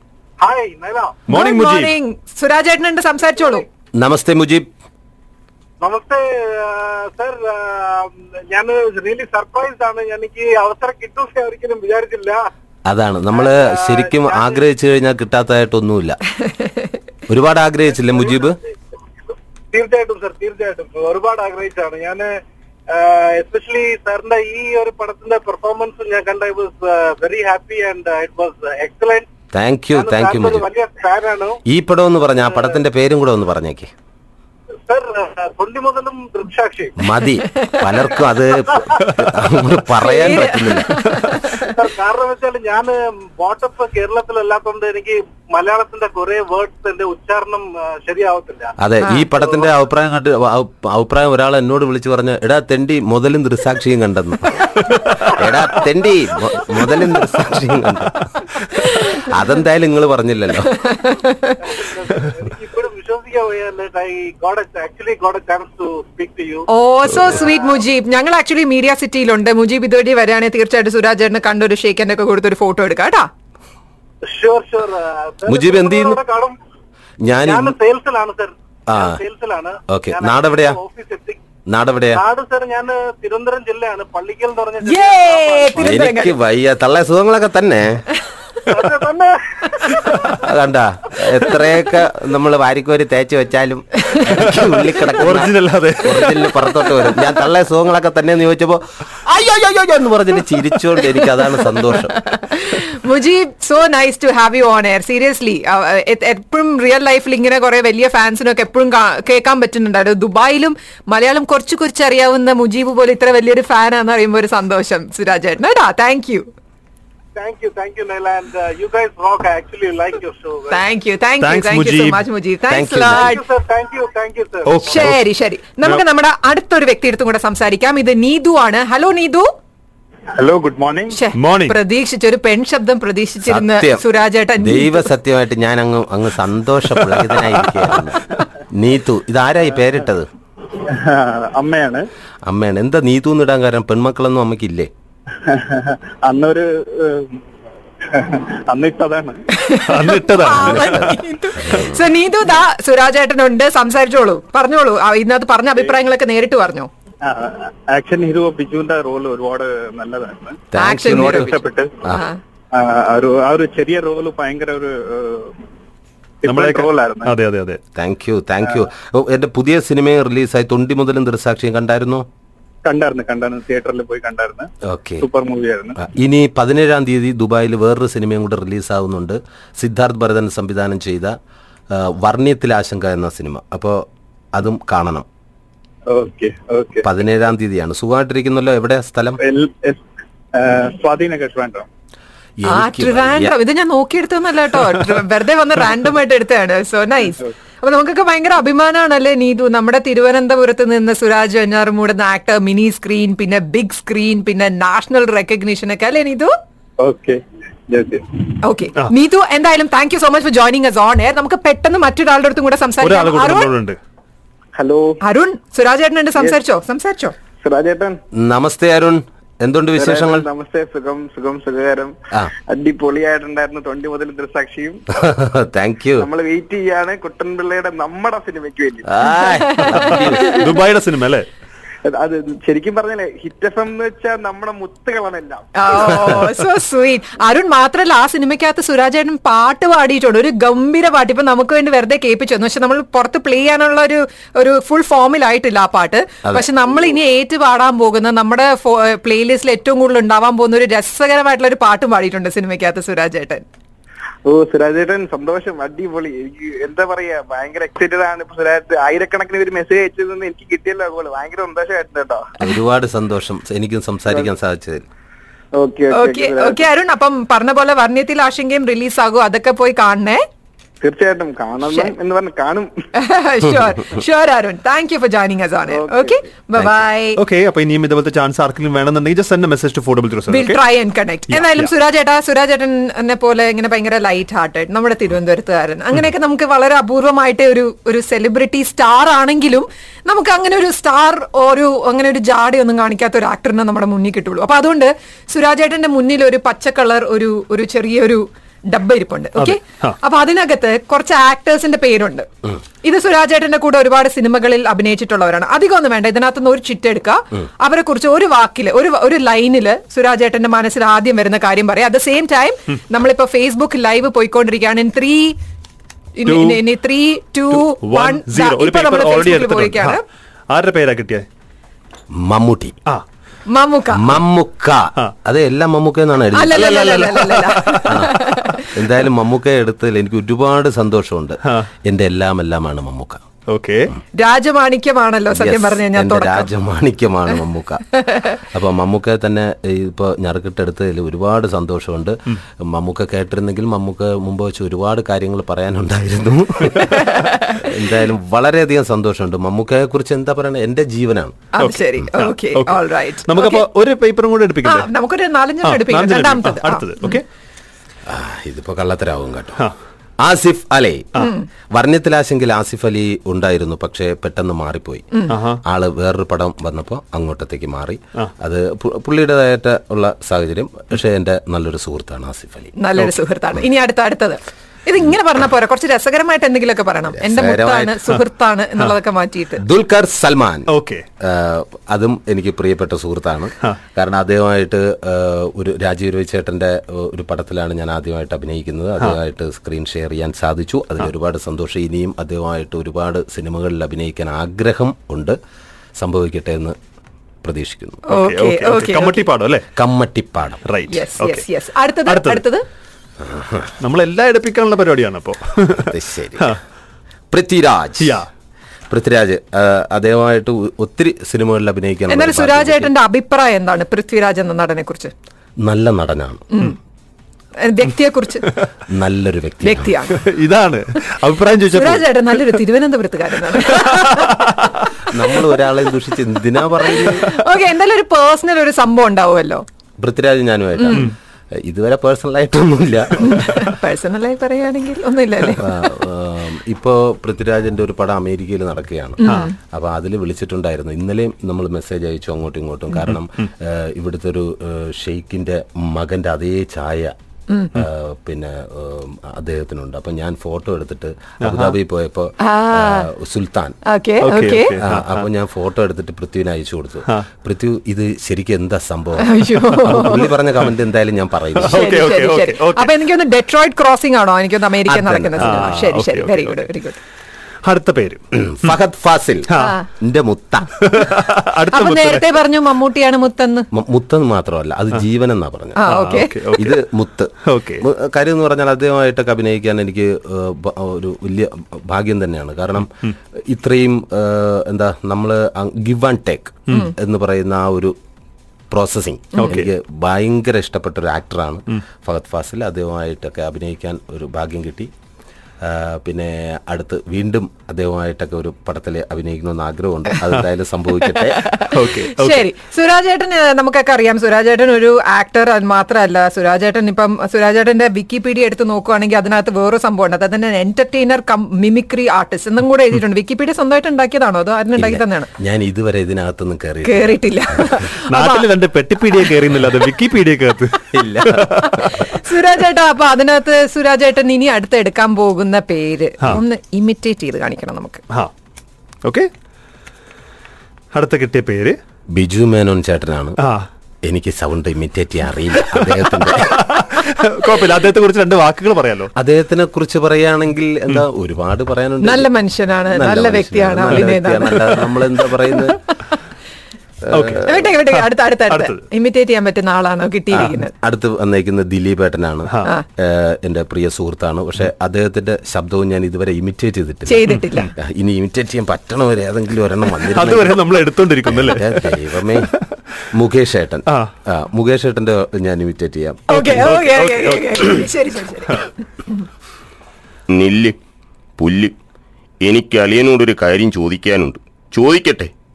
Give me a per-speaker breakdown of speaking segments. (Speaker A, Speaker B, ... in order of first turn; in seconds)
Speaker A: 0.4-1.2, 5.8-12.5, 13.3-14.6, 19.7-22.3, 22.9-29.3, 29.9-31.6, 34.9-37.0, 41.6-48.7, 49.3-49.7, 61.7-66.7, 74.2-76.5, 77.4-81.4, 82.1-86.0, 88.7-89.7, 117.3-120.8, 123.1-124.8
Speaker B: 1.3-1.9, 95.2-96.4, 121.4-122.2, 124.6-125.2, 131.3-131.8, 137.0-138.0, 149.8-151.2, 166.4-167.8, 213.0-214.0, 229.8-231.4, 277.4-280.8, 281.5-281.9, 299.6-300.1, 316.4-316.8, 317.7-321.4, 326.7-328.2, 333.7-334.1, 351.8-355.1, 355.8-357.4, 365.5-365.8, 380.9-381.2, 398.3-399.8, 400.9-401.6, 402.2-402.6, 404.0-406.8, 408.2-408.4, 420.3-422.8, 423.8-425.1, 451.6-451.9, 454.4-455.4, 461.8-463.1, 465.6-466.8, 467.8-468.9, 471.0-472.4, 476.1-477.0, 477.7-478.0, 489.6-489.9, 501.9-502.7, 518.3-521.9, 529.2-529.5, 531.1-532.0, 533.6-533.9, 536.6-539.3, 547.3-549.0, 560.3-562.1, 566.5-568.1
Speaker C: 1.3-3.6, 37.6-38.0, 40.0-41.7, 49.0-49.3, 60.8-61.6, 66.7-73.3, 84.8-86.3, 102.2-116.5, 120.7-123.4, 124.8-129.5, 131.1-135.1, 149.5-156.9, 160.8-162.4, 192.7-206.5, 208.6-213.7, 215.2-217.3, 229.8-230.6, 235.8-253.6, 266.1-270.4, 271.8-272.1, 273.1-277.4, 280.5-302.4, 303.0-315.5, 316.4-320.2, 323.7-324.4, 326.5-328.9, 334.4-336.7, 338.1-338.5, 347.1-347.9, 351.7-353.9, 354.8-357.4, 361.4-361.6, 373.0-379.8, 398.3-399.4, 401.1-402.8, 412.3-415.3, 417.8-418.7, 419.8-420.4, 421.9-424.6, 427.0-429.8, 431.0-431.3, 433.5-436.0, 439.4-439.7, 452.6-453.3, 454.1-455.0, 459.4-460.5, 461.9-467.2, 469.8-470.1, 471.9-473.9, 476.0-476.7, 501.2-515.5, 517.0-518.7, 521.8-528.2, 542.2-545.2, 547.6-550.9, 557.3-557.9, 566.5-569.4
Speaker D: 4.0-4.7, 12.9-16.2, 17.3-18.6, 29.5-30.6, 31.7-33.9, 37.0-41.0, 48.8-60.9, 75.5-76.2, 77.2-77.8, 78.9-79.2, 79.9-80.8, 81.7-82.2, 85.8-88.0, 90.2-102.2, 122.7-123.4, 133.4-134.0, 134.6-140.3, 142.4-144.9, 151.6-152.1, 160.7-161.5, 167.9-172.2, 174.9-175.3, 176.0-181.3, 181.9-184.0, 184.5-185.2, 187.0-189.4, 192.6-193.6, 218.4-220.5, 225.1-226.3, 229.1-230.6, 262.6-265.0, 322.4-322.9, 324.1-327.0, 328.1-328.4, 328.9-333.4, 335.5-351.6, 358.3-359.8, 360.4-372.9, 377.3-378.2, 379.8-380.9, 381.4-395.6, 396.2-396.9, 397.6-398.2, 399.9-400.8, 403.4-403.9, 406.0-406.8, 407.5-408.4, 409.1-413.1, 415.8-416.6, 419.1-420.2, 425.3-427.4, 430.2-433.7, 435.8-447.3, 447.9-454.0, 455.0-462.1, 465.1-466.1, 468.5-470.9, 473.9-476.0, 476.8-483.1, 483.7-488.1, 488.9-495.1, 495.8-501.8, 515.0-518.0, 521.1-522.2, 532.3-533.6, 534.2-537.0, 539.4-542.5, 543.1-546.0, 547.3-547.6, 550.5-557.4, 557.9-560.8, 561.5-562.7, 563.3-566.6
Speaker E: 130.3-131.2, 140.8-142.1, 145.4-147.4, 148.1-149.4, 157.2-160.6, 161.3-161.9, 162.7-165.5, 166.4-167.3, 172.9-174.7, 175.2-176.0, 186.1-187.0, 189.4-190.0, 190.6-191.8, 214.7-215.2, 217.6-218.2, 219.9-222.1, 222.7-225.1, 226.2-229.2, 232.0-236.3, 254.4-262.4, 265.7-266.8, 271.0-272.9, 275.9-276.4
Speaker F: 570.5-571.0, 571.6-571.9, 572.6-575.5